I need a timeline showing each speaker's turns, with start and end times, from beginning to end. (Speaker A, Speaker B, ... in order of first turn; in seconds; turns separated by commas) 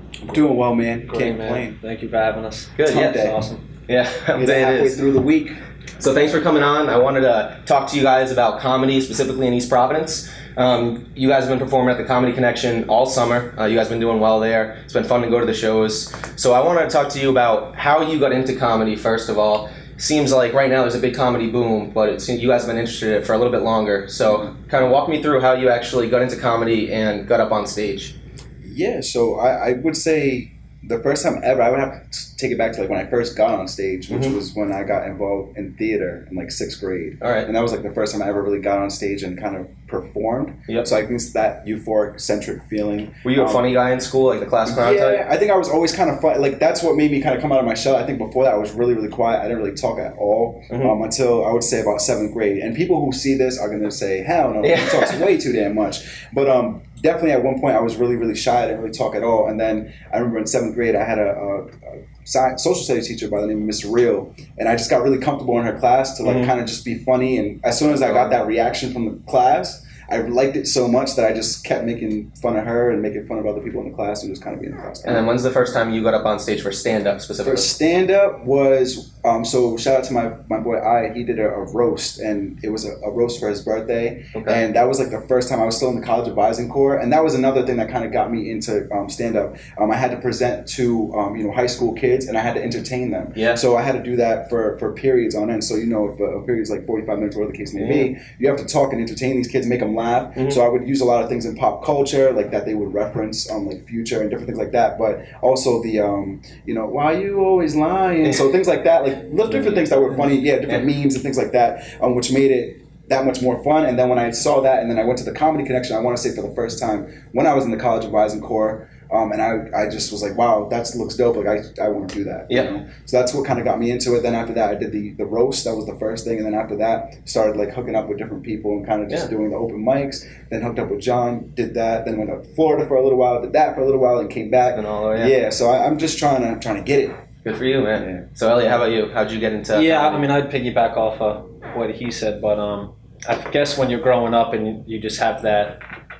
Speaker A: 0.2-1.8, Speaker B: 1.1-3.6, Speaker C: 2.8-3.3, Speaker A: 2.9-3.4, Speaker C: 3.9-5.0, Speaker A: 4.3-5.6, Speaker C: 6.0-28.1, Speaker A: 28.6-43.7, Speaker C: 37.2-37.5, Speaker C: 43.2-45.2, Speaker A: 44.6-75.2, Speaker C: 54.6-55.2, Speaker C: 66.2-66.5, Speaker C: 67.9-68.4, Speaker C: 75.0-77.7, Speaker A: 77.4-137.2, Speaker C: 84.3-84.6, Speaker C: 93.3-93.6, Speaker C: 97.8-98.1, Speaker C: 134.7-135.3, Speaker C: 137.4-140.3, Speaker A: 138.0-138.2, Speaker B: 139.7-145.8